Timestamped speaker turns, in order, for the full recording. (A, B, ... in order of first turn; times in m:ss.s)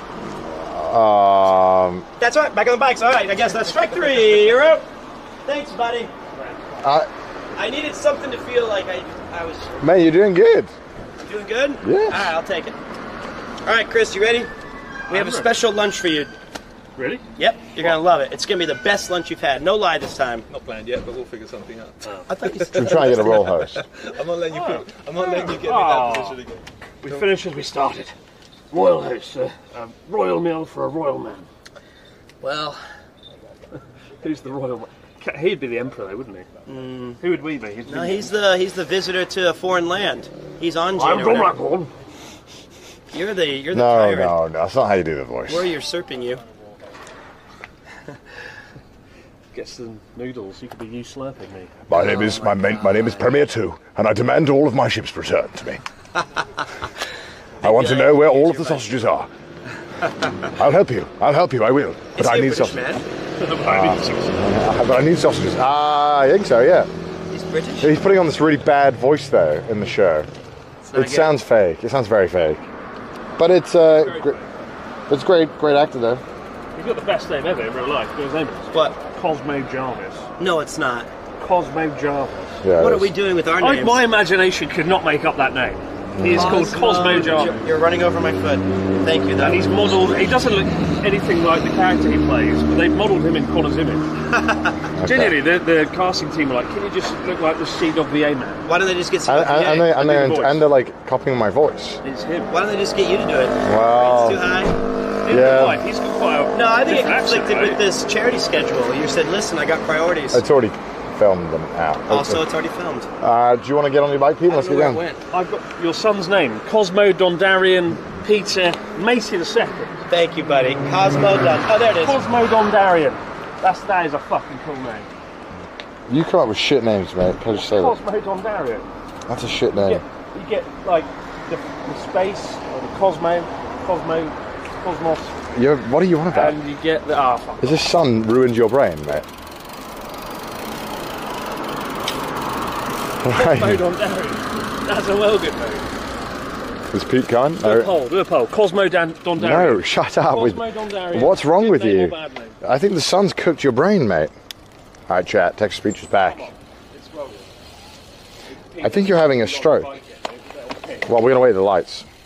0:00.3-0:02.0 A
0:02.2-0:04.8 B
0:05.4-0:06.1 B
0:06.3-0:06.6 C
0:06.8-0:07.1 A
0:07.5-0:09.9 B
0:09.8-0:10.7 A
0:11.2-0:12.8 B
0:11.8-0:12.3 A
0:13.6-0:14.5 B
0:15.1-0:15.5 C
0:15.1-0:16.3 B
0:17.0-0:17.2 C
0:17.3-0:20.4 B
0:20.5-0:22.1 D
0:22.3-0:23.6 B
0:22.6-0:27.3 D
0:22.7-0:23.8 A
0:24.5-0:26.4 C
0:27.0-0:28.1 C
0:28.7-0:31.5 C
0:32.4-0:32.8 B
0:34.2-0:36.5 C
0:36.6-0:37.2 B
0:37.2-0:38.3 C
0:37.8-0:41.5 B
0:41.0-0:41.9 C
0:43.1-0:44.4 B
0:43.7-0:45.7 A
0:45.5-0:46.4 B
0:49.5-0:53.1 C
0:51.9-0:55.8 A
0:57.6-0:58.9 B
0:57.6-0:59.3 A
1:00.4-1:02.8 A
1:02.1-1:03.0 B
1:03.4-1:04.4 C
1:03.7-1:06.9 A
1:07.3-1:07.9 B
1:07.8-1:10.3 A
1:10.8-1:11.3 B
1:10.9-1:12.6 A
1:13.4-1:14.4 A
1:13.9-1:14.5 C
1:15.1-1:16.2 A
1:16.7-1:20.3 C
1:18.7-1:19.0 B
1:20.4-1:21.1 B
1:21.4-1:22.6 C
1:22.6-1:23.1 A
1:22.7-1:24.0 B
1:23.6-1:27.6 C
1:26.1-1:26.6 A
1:26.3-1:30.3 B
1:29.3-1:34.1 C
1:34.3-1:34.8 B
1:34.9-1:35.3 A
1:35.0-1:38.6 C
1:38.6-1:40.0 B
1:39.3-1:42.0 A
1:40.0-1:40.6 C
1:42.0-1:42.5 C
1:42.5-1:44.8 B
1:43.6-1:44.4 A
1:45.2-1:47.8 C
1:45.3-1:45.8 A
1:46.5-1:50.4 B
1:50.3-1:52.4 A
1:52.1-1:53.1 B
1:53.2-1:55.0 A
1:54.5-1:55.2 B
1:55.3-2:00.0 C
2:00.1-2:02.2 B
2:02.0-2:05.1 C
2:06.1-2:08.0 A
2:07.5-2:08.9 C
2:09.3-2:10.0 A
2:09.8-2:15.4 C
2:15.5-2:16.6 A
2:16.3-2:17.9 C
2:17.6-2:19.3 A
2:23.2-2:23.8 A
2:23.3-2:25.9 C
2:26.9-2:27.9 A
2:27.6-2:32.6 C
2:29.4-2:34.3 A
2:35.1-2:36.5 A
2:36.2-2:37.5 C
2:38.5-2:41.1 C
2:38.8-2:39.9 A
2:41.0-2:42.1 A